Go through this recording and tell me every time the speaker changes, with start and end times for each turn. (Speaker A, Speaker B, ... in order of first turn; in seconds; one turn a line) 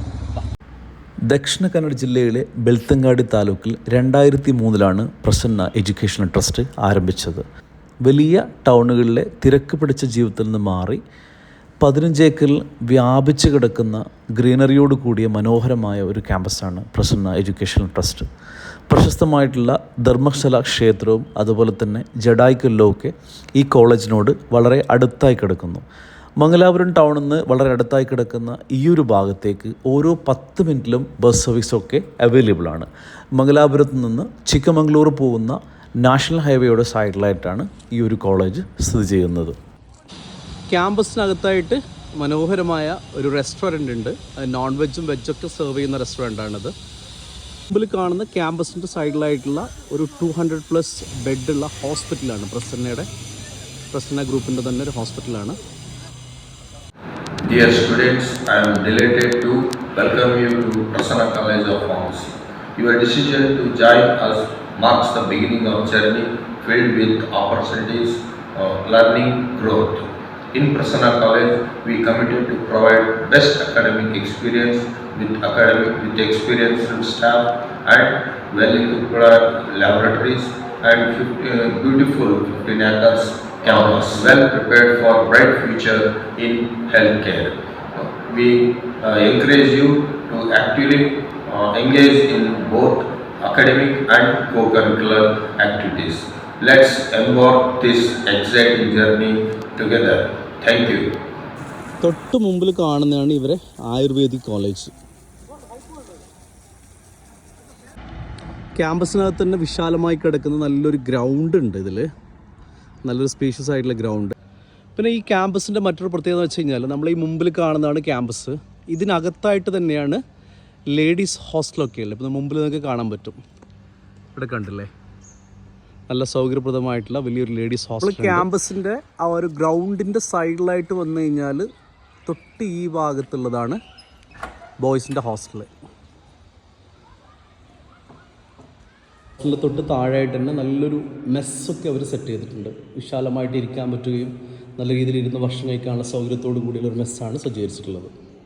Speaker A: 1.3-7.4
Speaker A: 8.0-11.0
Speaker A: 11.8-18.3
Speaker A: 18.9-25.8
Speaker A: 26.4-39.6
Speaker B: 40.7-46.7
Speaker B: 47.7-53.1
Speaker B: 53.9-55.6
Speaker C: 57.4-101.0
Speaker B: 102.0-104.9
Speaker B: 108.8-112.1
Speaker B: 113.0-114.3
Speaker B: 115.0-120.2
Speaker B: 120.9-123.4
Speaker B: 124.3-124.9
Speaker B: 126.1-131.7
Speaker A: 128.0-128.4
Speaker B: 132.2-133.8
Speaker B: 134.8-135.7
Speaker B: 139.4-148.1